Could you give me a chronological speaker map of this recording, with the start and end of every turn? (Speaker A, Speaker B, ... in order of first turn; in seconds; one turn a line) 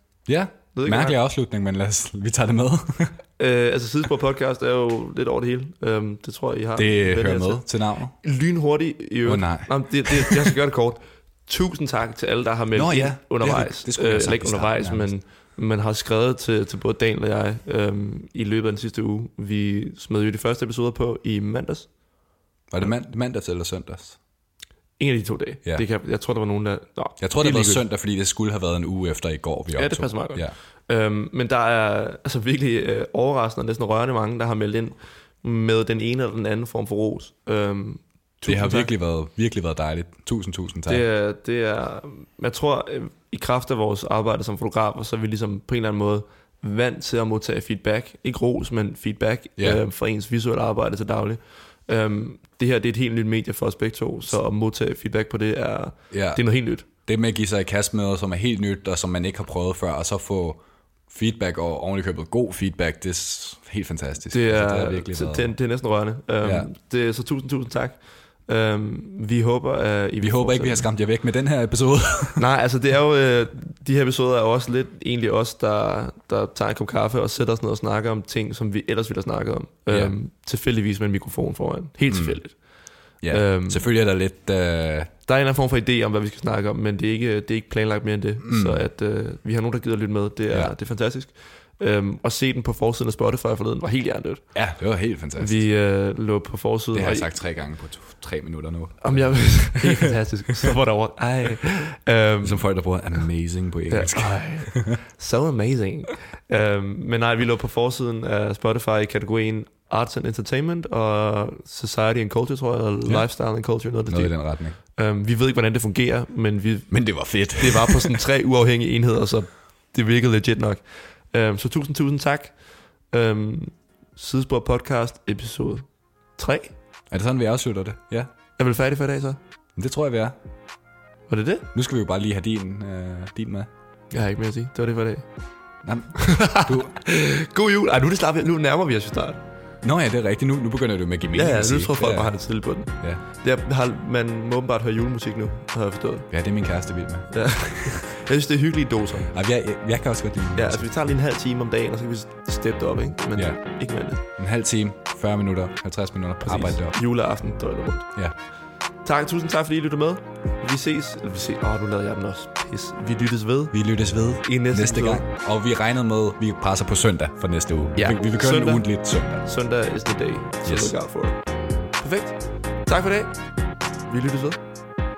Speaker A: 0.3-3.2
Speaker B: 0.8-1.2
Speaker B: 3.4-7.7
Speaker A: 6.8-8.2
Speaker B: 8.2-21.9
Speaker A: 9.2-10.5
Speaker A: 12.7-15.1
Speaker A: 22.7-24.2
Speaker B: 25.0-27.8
Speaker A: 27.2-30.5
Speaker B: 29.8-38.9
Speaker A: 38.5-41.0
Speaker B: 40.9-56.9
Speaker A: 56.1-56.4
Speaker A: 57.0-65.5
Speaker B: 64.3-70.9
Speaker A: 66.4-66.7
Speaker A: 70.2-72.4
Speaker B: 72.4-83.8
Speaker A: 82.1-82.4
Speaker A: 83.2-85.1
Speaker B: 85.2-94.5
Speaker A: 88.4-88.8
Speaker A: 94.5-95.7
Speaker B: 95.4-97.3
Speaker A: 96.9-100.2
Speaker B: 99.0-102.7
Speaker A: 102.4-105.0
Speaker B: 103.9-126.8
Speaker A: 114.1-114.8
Speaker A: 116.9-118.2
Speaker A: 127.1-128.3
Speaker B: 128.6-129.4
Speaker A: 129.8-130.3
Speaker B: 131.3-131.7
Speaker A: 131.7-133.7
Speaker B: 134.1-135.3
Speaker A: 135.8-136.9
Speaker B: 136.2-139.4
Speaker A: 139.8-142.4
Speaker B: 141.3-146.3
Speaker A: 146.3-147.3
Speaker B: 147.3-149.3
Speaker A: 149.2-150.8
Speaker B: 150.6-154.2
Speaker A: 154.3-157.0
Speaker B: 156.4-158.1
Speaker B: 159.0-163.8
Speaker A: 163.7-169.4
Speaker B: 164.4-165.3
Speaker B: 168.0-168.8
Speaker B: 169.4-171.4
Speaker A: 170.7-170.9
Speaker B: 172.0-173.4
Speaker B: 174.1-174.6